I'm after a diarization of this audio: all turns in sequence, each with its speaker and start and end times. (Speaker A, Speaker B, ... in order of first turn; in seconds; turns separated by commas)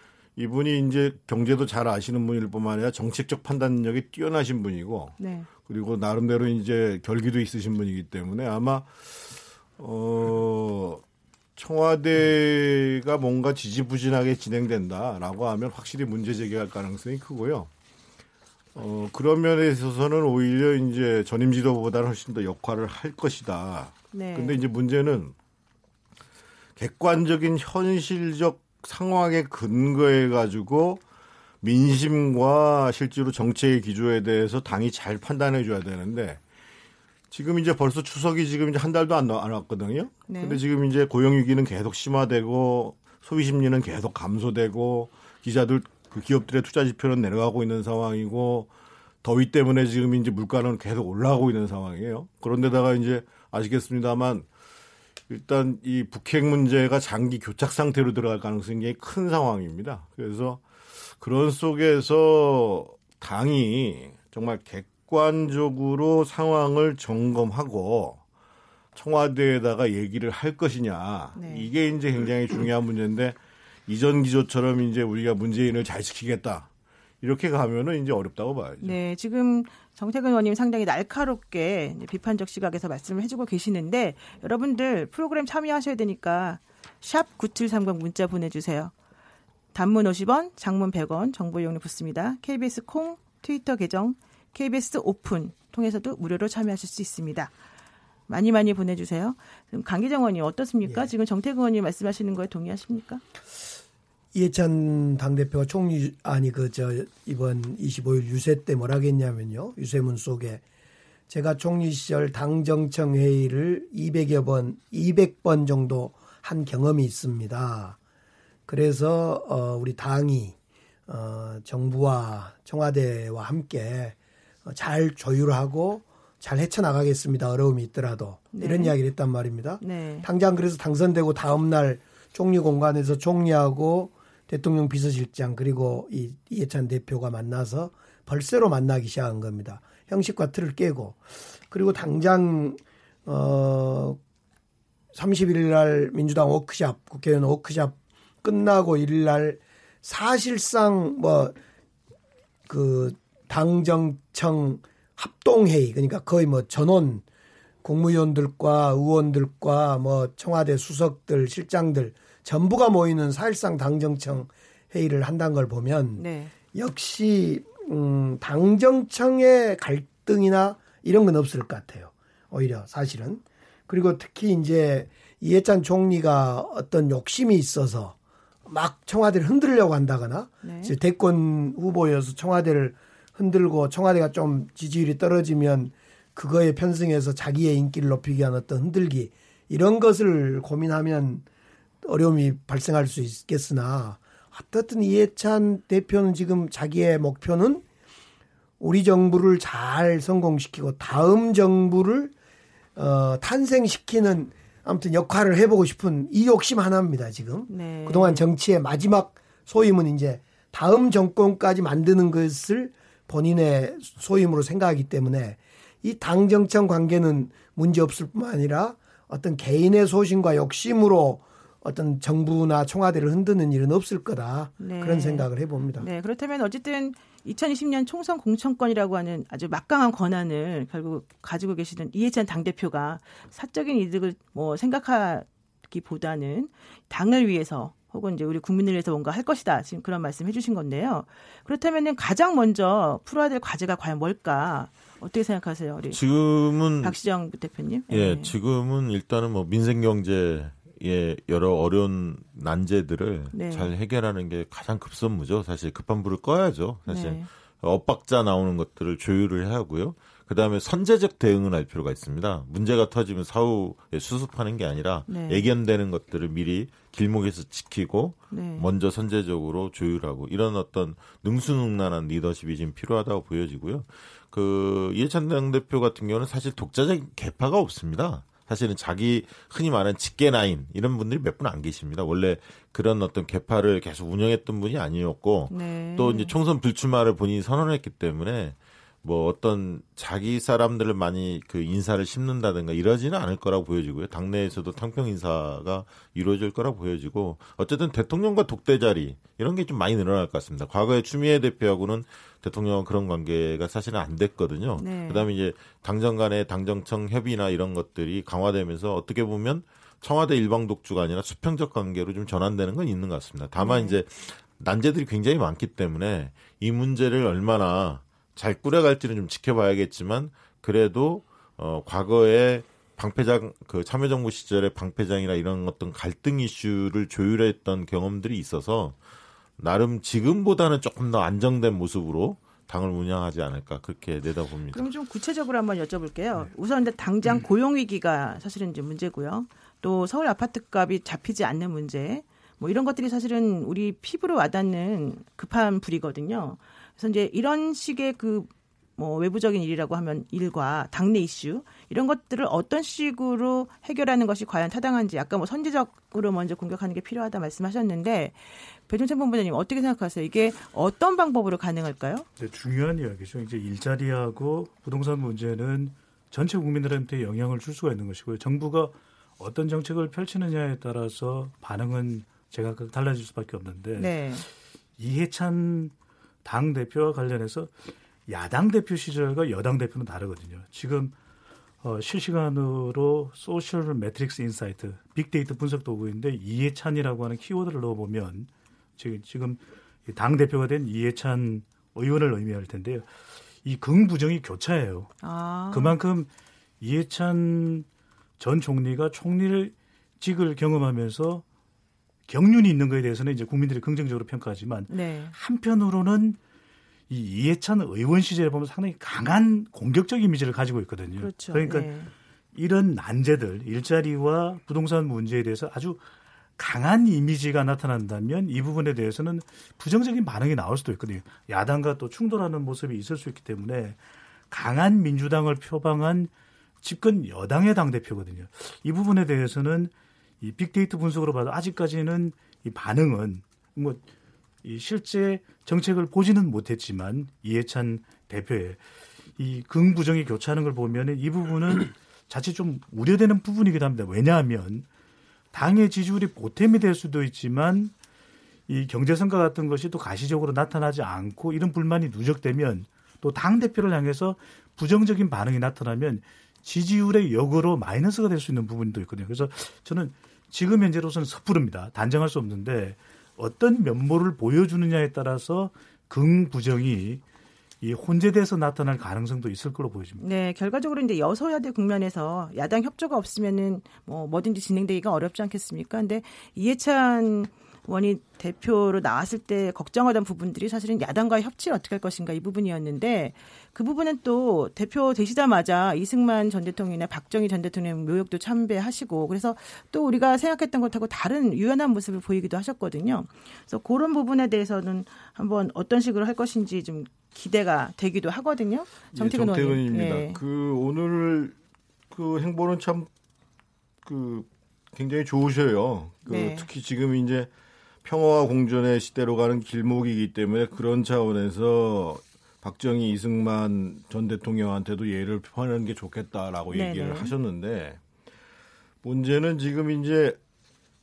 Speaker A: 0.3-8.9, Speaker B: 5.2-5.5, Speaker A: 9.8-11.0, Speaker A: 11.6-17.7, Speaker A: 18.7-25.3, Speaker B: 24.1-24.6, Speaker A: 26.8-31.0, Speaker A: 31.6-36.4, Speaker A: 37.3-48.7, Speaker B: 40.3-40.6, Speaker A: 49.2-54.5, Speaker A: 55.3-60.6, Speaker A: 61.2-68.2, Speaker A: 68.9-76.7, Speaker B: 71.3-71.7, Speaker A: 77.2-79.0, Speaker B: 78.8-88.9, Speaker B: 89.7-97.5, Speaker B: 98.3-103.2, Speaker C: 104.3-110.6, Speaker C: 111.3-118.0, Speaker C: 118.7-120.5, Speaker C: 121.1-144.2, Speaker B: 128.5-128.9, Speaker B: 129.8-130.3, Speaker C: 145.1-151.6, Speaker C: 152.7-157.2, Speaker C: 157.8-191.4, Speaker B: 166.2-166.5, Speaker B: 180.6-180.9, Speaker C: 192.0-197.8, Speaker C: 198.8-202.3, Speaker C: 202.9-226.1, Speaker B: 207.7-208.5, Speaker B: 224.8-246.2, Speaker D: 246.1-247.2, Speaker B: 247.0-248.5, Speaker D: 248.1-329.1, Speaker B: 253.5-253.9, Speaker B: 257.1-257.5, Speaker B: 265.3-265.7, Speaker B: 268.5-268.9, Speaker B: 285.7-286.5, Speaker B: 305.0-305.5, Speaker B: 313.8-314.2, Speaker D: 329.8-335.1, Speaker B: 334.9-358.6, Speaker B: 359.1-362.4, Speaker E: 362.6-374.7, Speaker B: 374.1-374.6, Speaker E: 375.2-376.1, Speaker E: 376.6-377.9, Speaker E: 378.5-381.3, Speaker E: 382.0-393.3, Speaker E: 393.8-395.3, Speaker B: 395.4-396.1, Speaker E: 395.9-396.5, Speaker E: 397.0-398.1, Speaker E: 398.6-401.6, Speaker E: 402.5-406.6, Speaker B: 405.1-405.5, Speaker E: 407.3-412.1, Speaker B: 411.4-412.3, Speaker E: 412.7-416.2, Speaker E: 416.8-426.5, Speaker E: 427.0-434.2, Speaker E: 434.8-439.0, Speaker E: 439.6-445.1, Speaker E: 445.7-448.1, Speaker E: 448.9-467.4, Speaker E: 468.0-470.4, Speaker B: 470.4-500.6, Speaker A: 499.3-501.8, Speaker A: 502.3-503.3, Speaker A: 504.2-507.7, Speaker B: 506.4-506.9, Speaker A: 508.2-518.2, Speaker B: 516.9-517.5, Speaker A: 519.2-520.6